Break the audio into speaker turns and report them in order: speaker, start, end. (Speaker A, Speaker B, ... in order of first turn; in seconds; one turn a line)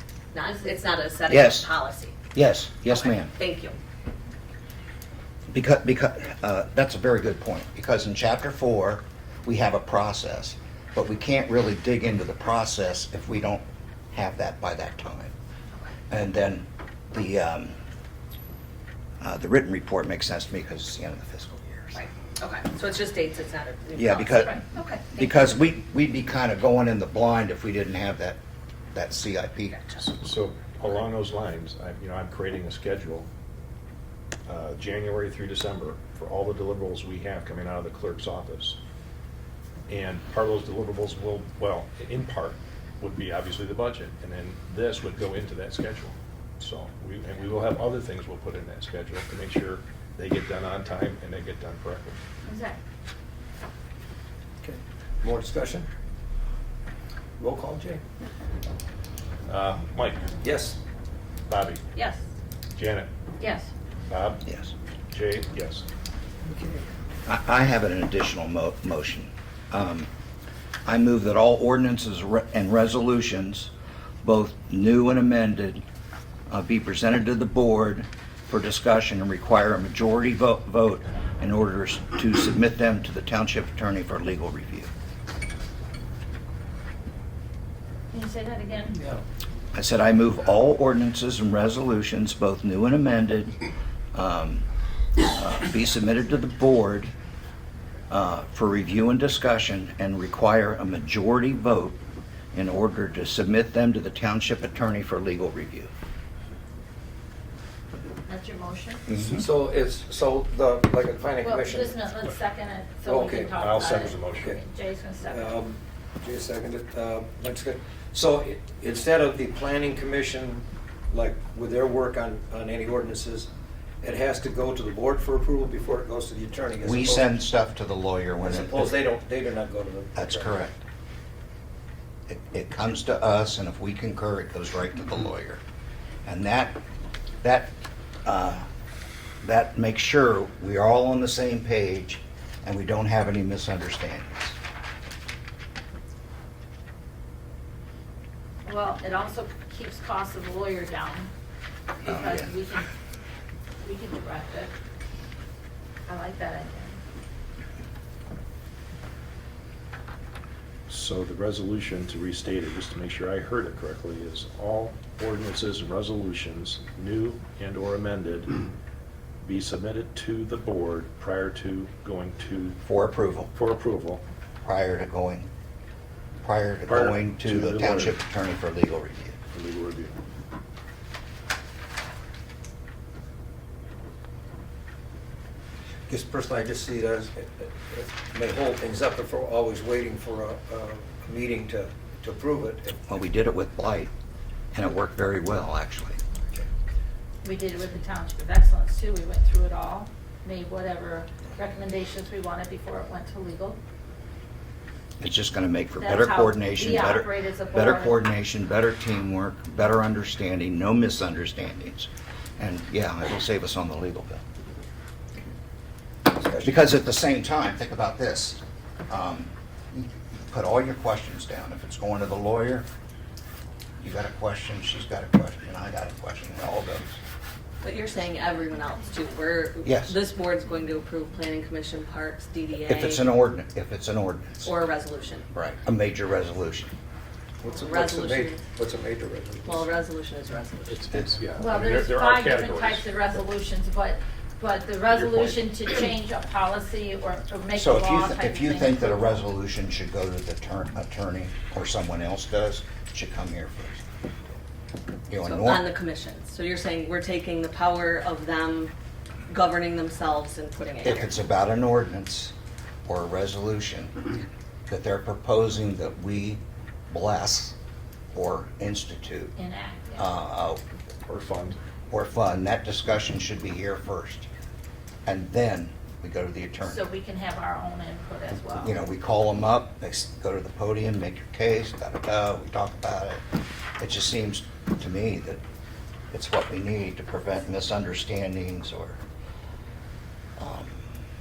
Speaker A: 0.3-2.2
Speaker B: 1.3-1.7
Speaker B: 2.3-3.3
Speaker A: 2.9-3.8
Speaker B: 5.5-15.3
Speaker B: 16.1-17.7
Speaker B: 19.2-22.0
Speaker A: 21.9-25.4
Speaker B: 23.9-28.4
Speaker B: 28.9-29.8
Speaker A: 29.7-30.0
Speaker C: 30.0-33.3
Speaker C: 34.5-38.8
Speaker C: 39.9-52.2
Speaker D: 52.5-52.8
Speaker E: 54.6-55.9
Speaker E: 57.4-58.0
Speaker C: 59.5-60.4
Speaker E: 60.4-60.8
Speaker C: 61.5-61.8
Speaker D: 61.9-62.2
Speaker C: 62.7-63.1
Speaker D: 63.4-63.7
Speaker C: 64.1-64.4
Speaker B: 64.4-64.7
Speaker C: 65.1-65.8
Speaker E: 66.5-66.8
Speaker B: 67.2-70.1
Speaker B: 70.8-73.7
Speaker B: 74.2-75.8
Speaker B: 76.5-84.9
Speaker D: 88.1-89.2
Speaker B: 89.7-93.6
Speaker B: 94.1-94.6
Speaker B: 95.2-97.1
Speaker B: 98.1-102.0
Speaker B: 102.5-105.9
Speaker D: 108.2-109.0
Speaker B: 109.1-109.4
Speaker E: 109.1-111.9
Speaker D: 111.4-115.6
Speaker E: 113.0-113.5
Speaker C: 113.6-114.5
Speaker E: 115.3-123.5
Speaker E: 124.0-127.3
Speaker B: 126.8-128.9
Speaker E: 128.4-130.6
Speaker B: 130.1-130.8
Speaker B: 132.3-135.6
Speaker B: 136.2-136.8
Speaker B: 137.4-137.7
Speaker B: 138.2-138.7
Speaker B: 139.4-144.6
Speaker D: 148.7-151.3
Speaker D: 152.0-152.9
Speaker B: 152.0-152.5
Speaker D: 153.8-154.7
Speaker D: 156.1-157.0
Speaker C: 160.9-168.5
Speaker C: 169.4-172.8
Speaker B: 172.8-173.5
Speaker C: 173.5-174.2
Speaker B: 174.6-175.5
Speaker B: 176.4-179.4
Speaker C: 176.9-178.2
Speaker C: 179.5-180.2
Speaker E: 186.1-192.9
Speaker B: 193.1-194.1
Speaker B: 194.7-196.2
Speaker D: 197.4-203.8
Speaker B: 205.2-214.4
Speaker D: 206.0-208.2
Speaker E: 216.3-216.7
Speaker B: 216.5-222.9
Speaker B: 224.0-227.2
Speaker A: 227.8-233.3
Speaker B: 229.8-230.2
Speaker B: 232.8-234.7
Speaker A: 234.6-235.5
Speaker B: 235.5-236.9
Speaker E: 237.6-239.8
Speaker A: 237.7-238.6
Speaker A: 239.6-241.1
Speaker C: 240.9-243.2
Speaker D: 241.6-249.3
Speaker C: 245.2-245.5
Speaker B: 247.7-254.6
Speaker B: 255.3-255.9
Speaker A: 255.4-258.9
Speaker A: 259.5-261.4
Speaker B: 261.0-262.5
Speaker B: 263.1-264.3
Speaker B: 264.9-267.7
Speaker B: 268.3-269.5
Speaker D: 269.6-270.3
Speaker B: 270.2-270.8
Speaker C: 271.3-271.8
Speaker B: 272.1-274.5
Speaker B: 275.2-277.1
Speaker D: 276.8-279.0
Speaker B: 278.8-283.4
Speaker B: 284.0-285.6
Speaker B: 286.3-289.2
Speaker B: 290.6-291.1